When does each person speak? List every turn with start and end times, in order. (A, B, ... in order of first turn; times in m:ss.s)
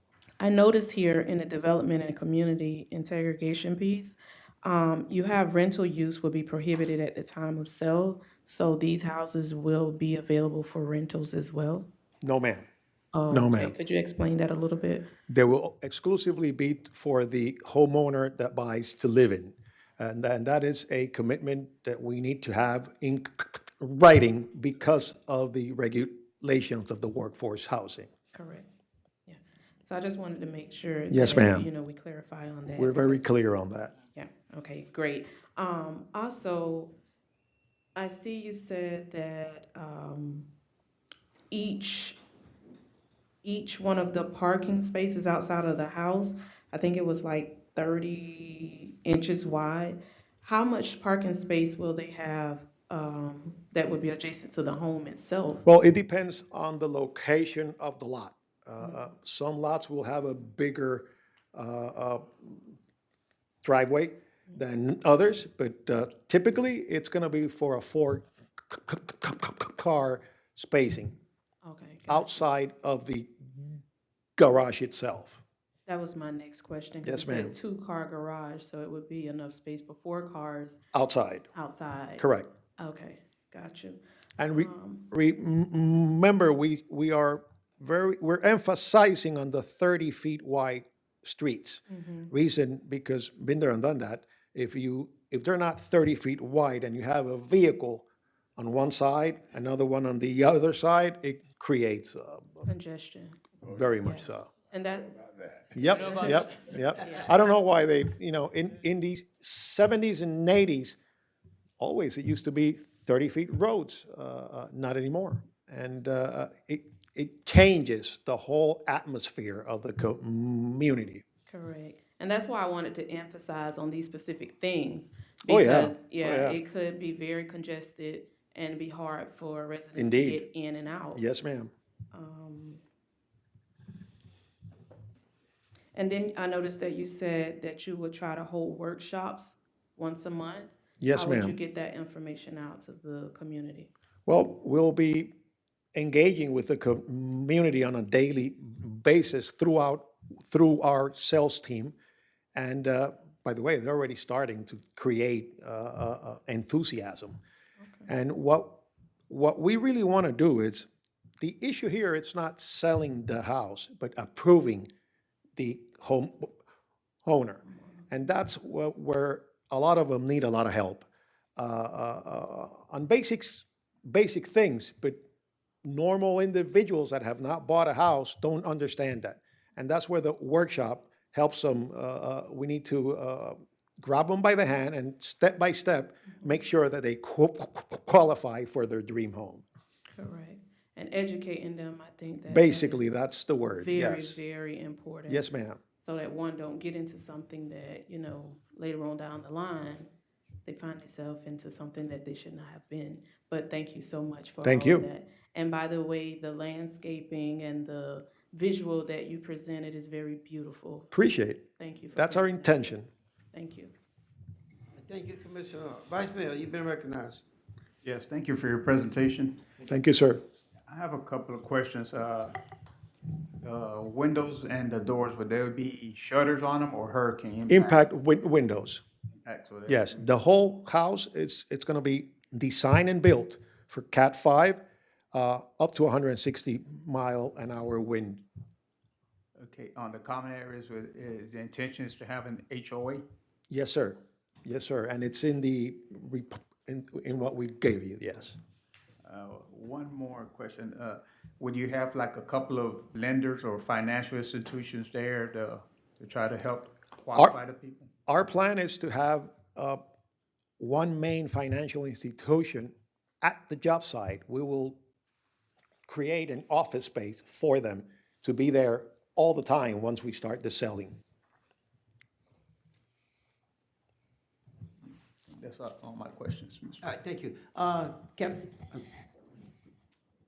0:00.4-0:11.9 A
0:12.2-0:12.7 B
0:13.1-0:15.1 A
0:13.3-0:13.8 B
0:15.3-0:28.1 B
0:28.3-0:28.7 A
0:29.3-0:33.3 A
0:31.1-0:31.7 B
0:32.8-0:33.9 B
0:34.2-0:36.9 A
0:38.0-0:40.5 A
0:41.5-0:42.2 A
0:43.4-0:55.6 A
0:55.6-1:02.8 B
1:03.6-1:11.2 B
1:11.6-1:12.3 A
1:12.1-1:13.8 B
1:14.4-1:15.4 B
1:15.9-1:20.8 A
1:17.0-1:17.6 B
1:20.9-1:21.5 B
1:21.6-1:22.2 A
1:22.2-1:22.5 B
1:22.8-1:24.0 A
1:24.4-1:38.0 B
1:24.6-1:25.1 A
1:31.9-1:32.3 A
1:38.6-1:42.7 B
1:42.7-1:43.4 A
1:43.7-1:44.5 B
1:44.0-1:45.2 A
1:45.7-1:51.0 B
1:45.9-1:47.2 A
1:51.8-2:01.2 B
2:01.5-2:11.2 A
2:05.5-2:06.6 B
2:10.0-2:10.4 B
2:11.2-2:11.7 B
2:12.1-2:12.8 A
2:16.0-2:23.9 A
2:21.0-2:21.6 B
2:24.3-2:25.3 B
2:26.0-2:32.0 B
2:32.6-2:37.4 B
2:37.8-2:38.1 A
2:38.1-2:40.9 B
2:41.4-2:44.9 B
2:45.6-2:46.5 B
2:47.2-2:55.2 B
2:55.8-3:09.6 B
3:10.1-3:13.1 A
3:12.5-3:14.4 B
3:13.8-3:15.4 A
3:15.3-3:15.8 B
3:16.0-3:20.1 A
3:20.6-3:31.1 A
3:24.6-3:25.1 B
3:31.1-3:33.1 B
3:31.8-3:32.8 A
3:33.5-3:33.9 A
3:35.0-3:37.4 C
3:38.0-3:39.6 D
3:39.9-3:40.4 B
3:40.9-3:42.6 D
3:43.6-3:48.0 D
3:47.7-3:49.0 B
3:49.4-3:50.2 D
3:49.9-3:54.8 B
3:55.3-3:58.4 B
3:59.6-4:03.2 D
4:03.7-4:08.6 B
4:09.2-4:18.1 D
4:18.3-4:20.0 B
4:20.8-4:25.0 B
4:26.1-4:31.2 B
4:35.5-4:37.1 D
4:37.0-4:39.0 C